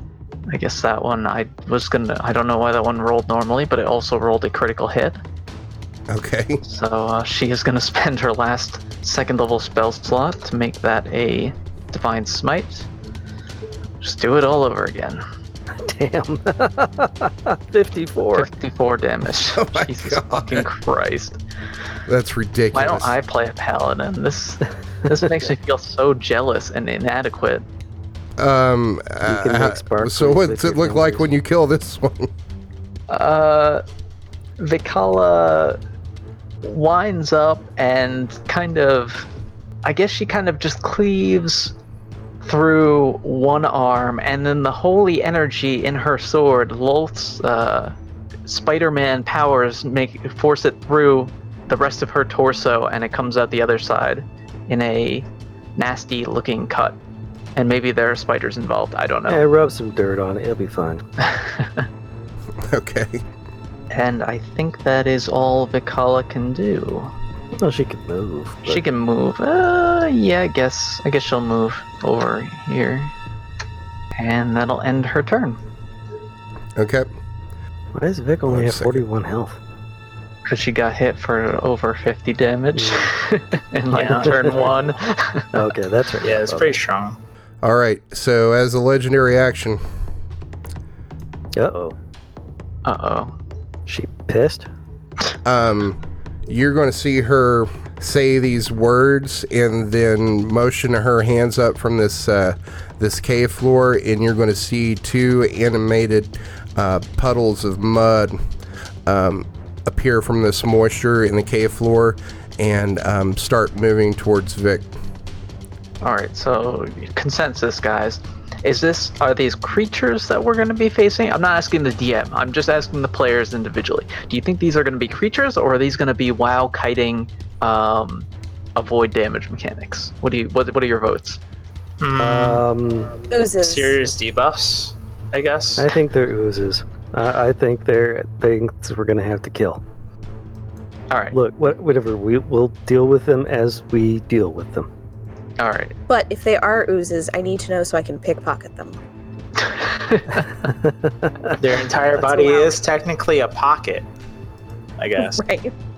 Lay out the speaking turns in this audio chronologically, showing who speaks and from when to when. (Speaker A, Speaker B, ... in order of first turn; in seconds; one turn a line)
Speaker A: 0.5-5.2
Speaker B: 6.1-6.6
Speaker A: 6.6-12.9
Speaker A: 14.0-15.2
Speaker C: 15.8-18.5
Speaker A: 18.3-21.4
Speaker B: 19.6-20.7
Speaker B: 22.1-23.1
Speaker A: 22.7-27.7
Speaker B: 28.4-32.3
Speaker C: 29.3-31.3
Speaker A: 33.1-33.8
Speaker A: 34.6-35.8
Speaker A: 36.6-39.3
Speaker A: 39.8-41.7
Speaker A: 42.4-48.0
Speaker A: 48.5-57.0
Speaker A: 57.6-59.5
Speaker C: 59.3-61.0
Speaker A: 61.2-61.9
Speaker B: 62.6-63.2
Speaker A: 63.9-67.1
Speaker C: 67.6-68.8
Speaker A: 68.7-73.1
Speaker A: 74.2-75.6
Speaker B: 76.8-77.1
Speaker C: 78.0-79.6
Speaker B: 78.5-79.0
Speaker A: 80.5-85.7
Speaker C: 82.8-83.1
Speaker D: 84.0-84.7
Speaker C: 84.0-84.7
Speaker C: 85.5-86.8
Speaker D: 86.2-87.2
Speaker B: 87.6-89.8
Speaker C: 91.5-92.0
Speaker A: 92.8-93.3
Speaker C: 93.9-94.7
Speaker B: 95.5-108.4
Speaker B: 109.1-114.9
Speaker A: 116.0-131.4
Speaker D: 132.0-132.6
Speaker C: 132.2-133.1
Speaker E: 133.3-134.0
Speaker D: 133.6-135.9
Speaker C: 135.8-139.8
Speaker A: 141.1-141.4
Speaker C: 141.3-144.9
Speaker A: 145.6-145.9
Speaker E: 146.1-149.0
Speaker A: 149.6-150.7
Speaker C: 150.6-151.6
Speaker D: 151.6-154.1
Speaker E: 152.2-152.7
Speaker D: 155.0-155.4
Speaker E: 155.2-155.7